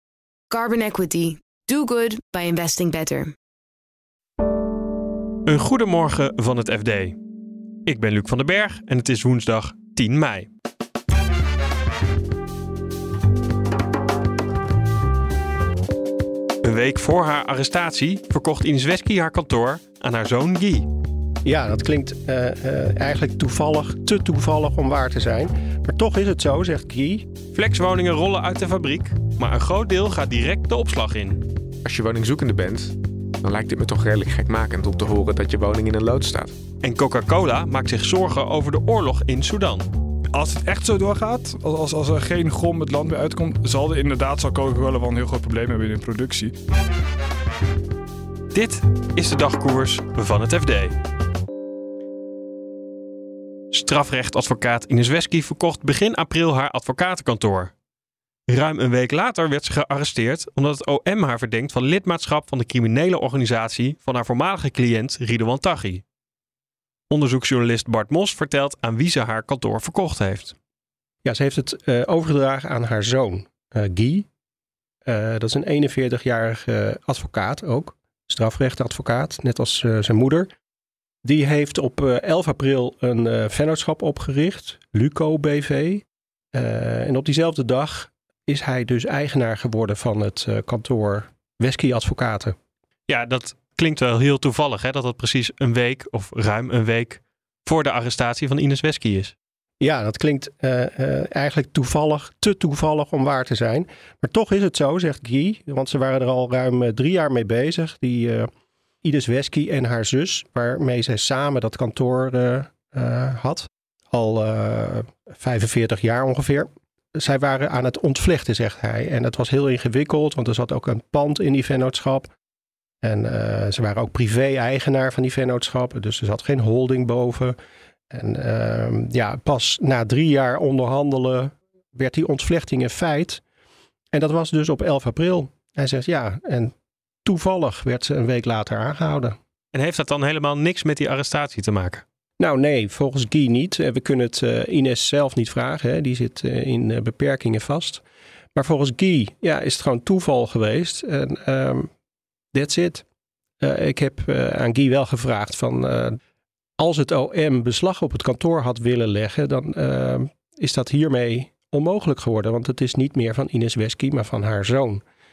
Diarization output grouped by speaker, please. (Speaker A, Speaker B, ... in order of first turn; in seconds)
Speaker A: 0.5-3.3
Speaker B: 5.5-7.2, 7.8-10.5, 16.6-20.9, 27.5-31.4, 36.8-39.9, 48.5-50.9, 53.7-57.7, 58.5-66.0, 67.1-70.5, 93.1-99.3, 139.7-142.0
Speaker C: 21.4-27.2, 71.2-74.2, 75.1-80.5, 81.2-92.5, 99.8-108.5, 109.0-122.3, 123.0-127.5, 128.1-133.4, 134.1-136.7, 137.2-139.4, 142.4-148.0, 148.6-151.9, 152.5-153.0, 153.6-156.1, 156.8-165.0
Speaker D: 31.8-36.5
Speaker E: 40.3-46.5